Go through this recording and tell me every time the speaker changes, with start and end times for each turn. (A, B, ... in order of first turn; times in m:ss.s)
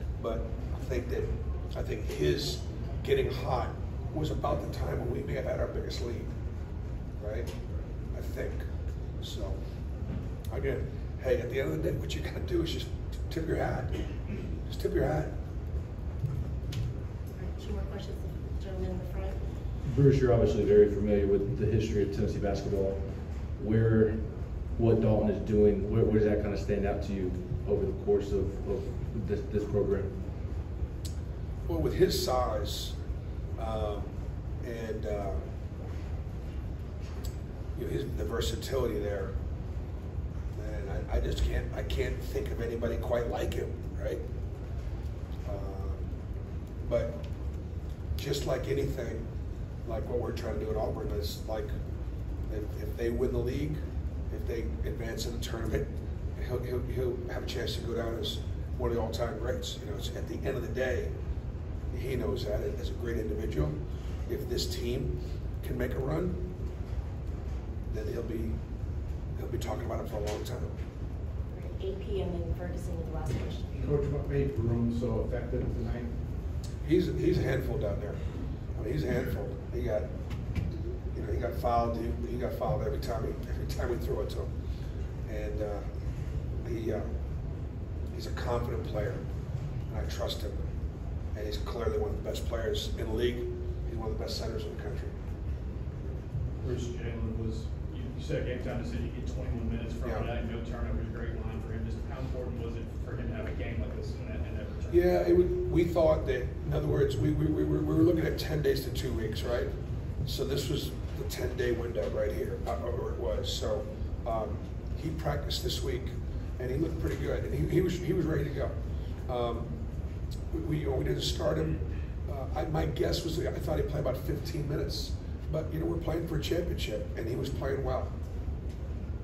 0:00.2-0:06.3 A
0:07.2-0:07.5 A
0:08.1-0:08.6 A
0:09.2-0:09.6 A
0:10.5-0:14.0 A
0:14.6-0:15.3 A
0:17.4-0:19.4 B
0:19.8-0:30.1 C
0:31.7-0:33.0 A
0:33.6-0:35.4 A
0:37.7-0:39.3 A
0:40.5-0:44.2 A
0:45.4-0:46.1 A
0:46.8-0:47.2 A
0:48.1-0:49.3 A
0:49.8-0:51.7 A
0:52.5-0:53.8 A
0:54.3-1:01.1 A
1:01.9-1:06.4 A
1:07.9-1:08.6 A
1:09.4-1:10.7 A
1:11.5-1:13.9 B
1:13.8-1:16.1 D
1:16.8-1:20.1 A
1:21.1-1:24.5 A
1:25.2-1:25.9 A
1:26.6-1:27.1 A
1:28.1-1:29.2 A
1:29.9-1:30.7 A
1:31.3-1:35.1 A
1:36.6-1:45.1 E
1:40.0-1:40.3 A
1:44.9-1:49.7 A
1:50.2-1:58.7 A
1:59.3-1:59.7 A
2:00.5-2:08.1 A